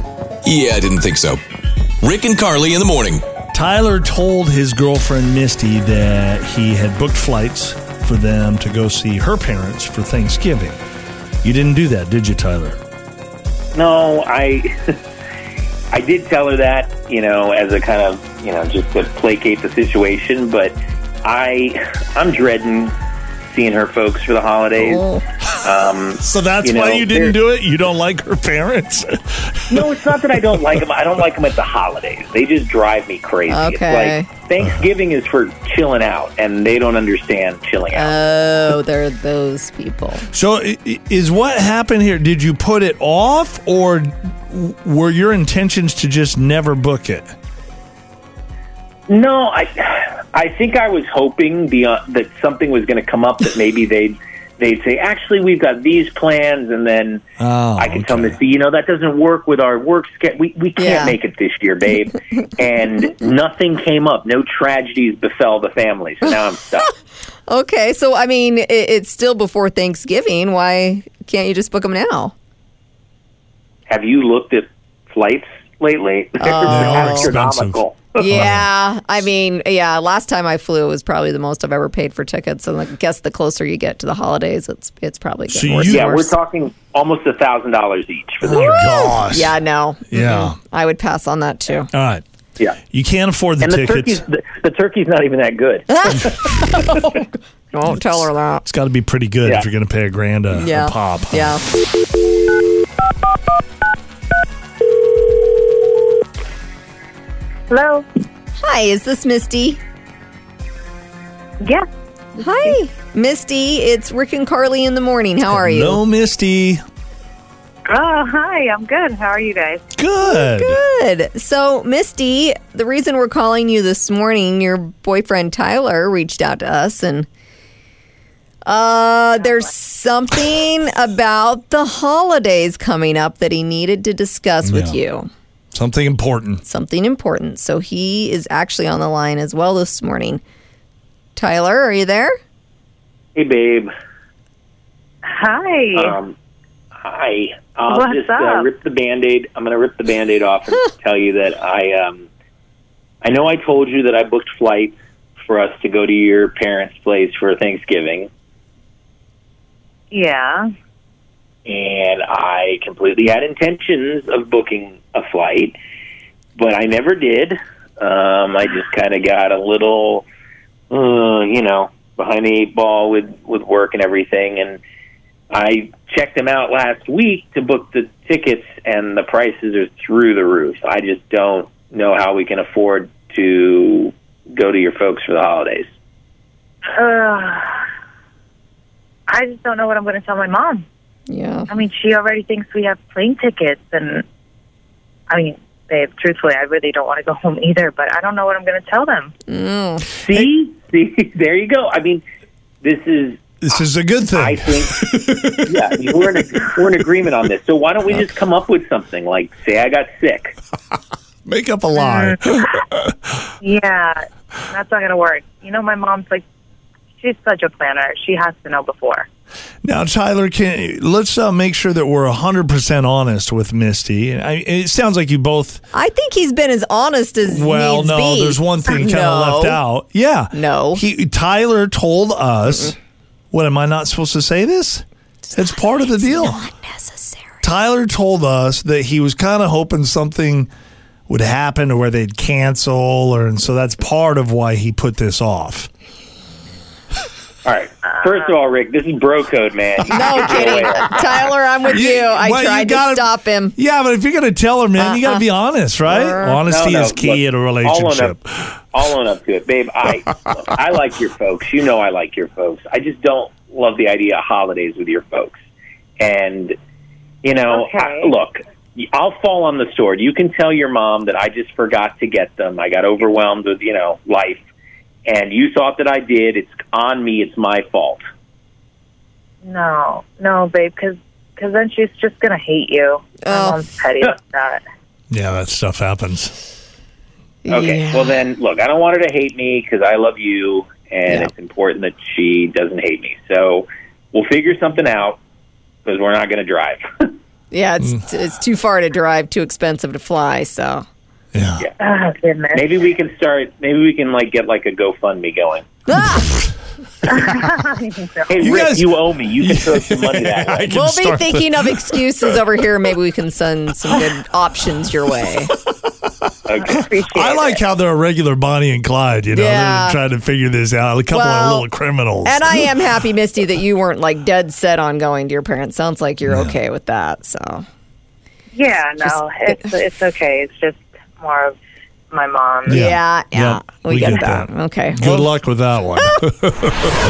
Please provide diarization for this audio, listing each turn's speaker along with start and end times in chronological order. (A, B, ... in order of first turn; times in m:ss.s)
0:00.4-0:01.4 A
0:02.0-0:03.2 A
0:03.5-0:10.8 B
0:11.4-0:12.8 B
0:13.7-0:14.9 C
0:15.9-0:22.9 C
0:23.5-0:25.0 C
0:24.8-0:25.2 D
0:25.6-0:27.4 C
0:26.2-0:30.7 B
0:29.7-0:38.2 C
0:33.5-0:34.3 D
0:37.9-0:40.3 D
0:40.3-0:47.3 B
0:49.1-0:57.2 C
0:57.4-0:58.4 B
0:57.8-1:06.9 C
1:00.8-1:01.2 D
1:07.5-1:12.3 D
1:13.9-1:18.2 C
1:16.4-1:17.3 D
1:16.6-1:18.7 B
1:18.2-1:26.4 D
1:25.5-1:26.0 B
1:25.8-1:28.9 C
1:28.4-1:29.6 B
1:28.5-1:31.9 D
1:30.1-1:30.6 B
1:31.9-1:32.2 B
1:32.9-1:34.2 B
1:33.6-1:37.0 C
1:35.9-1:38.6 D
1:37.8-1:41.6 B
1:40.5-1:41.6 D
1:47.7-1:48.0 E
1:48.6-1:49.8 D
1:52.4-1:56.0 D
1:52.5-1:52.7 E
1:55.4-1:56.8 B
1:57.9-1:59.8 E
1:59.9-2:00.8 B
2:00.2-2:07.3 D
2:08.6-2:15.3 D
2:14.6-2:15.0 B
2:15.7-2:16.6 B
2:16.6-2:20.4 D
2:21.4-2:22.4 D
2:23.3-2:23.9 C
2:25.2-2:26.1 E
2:25.9-2:26.3 C
2:27.0-2:32.3 C
2:27.9-2:28.6 E
2:33.2-2:38.3 C
2:40.1-2:40.6 E
2:41.6-2:45.8 C
2:46.6-2:50.2 C
2:50.9-2:54.8 C
2:55.5-3:05.9 C
3:06.9-3:07.8 E
3:09.3-3:10.8 E
3:11.3-3:11.7 D
3:11.7-3:14.2 E
3:15.3-3:19.3 E
3:19.5-3:20.1 D
3:20.2-3:22.2 C
3:22.8-3:23.5 C
3:23.6-3:25.9 B
3:24.3-3:25.0 C
3:25.6-3:30.5 C
3:31.4-3:33.5 B
3:32.0-3:32.4 E
3:33.6-3:36.4 E
3:37.2-3:39.3 E
3:39.8-3:45.8 B
3:45.9-3:49.8 D
3:47.4-3:53.0 B
3:50.5-3:51.0 D
3:53.5-3:56.6 B
3:55.5-3:57.6 D
3:57.6-4:00.7 B
4:01.3-4:05.9 B
4:07.6-4:11.3 C
4:10.1-4:13.8 D
4:11.9-4:18.8 B
4:15.0-4:15.4 D
4:16.0-4:16.6 D
4:16.7-4:18.4 C
4:18.9-4:25.6 C
4:26.2-4:26.7 C
4:27.4-4:34.6 C
4:27.7-4:28.3 E
4:35.2-4:38.2 C
4:39.6-4:44.8 E
4:43.4-4:43.8 D
4:45.3-4:46.6 B
4:47.6-4:48.3 D
4:47.7-4:55.4 C
4:56.0-4:57.3 C
4:57.7-5:01.0 D
5:01.5-5:01.9 B
5:02.0-5:02.9 E
5:02.7-5:05.8 C
5:06.1-5:06.5 D
5:07.2-5:08.7 E
5:08.5-5:11.0 C
5:08.6-5:12.6 B
5:10.9-5:15.7 D
5:16.7-5:17.0 C
5:16.8-5:17.8 E
5:16.9-5:22.9 B
5:19.5-5:20.2 D
5:21.3-5:21.9 D
5:22.4-5:27.8 D
5:26.4-5:26.8 B
5:28.7-5:31.8 E
5:29.2-5:29.8 D
5:32.3-5:33.0 E
5:32.8-5:35.5 D
5:32.9-5:37.1 B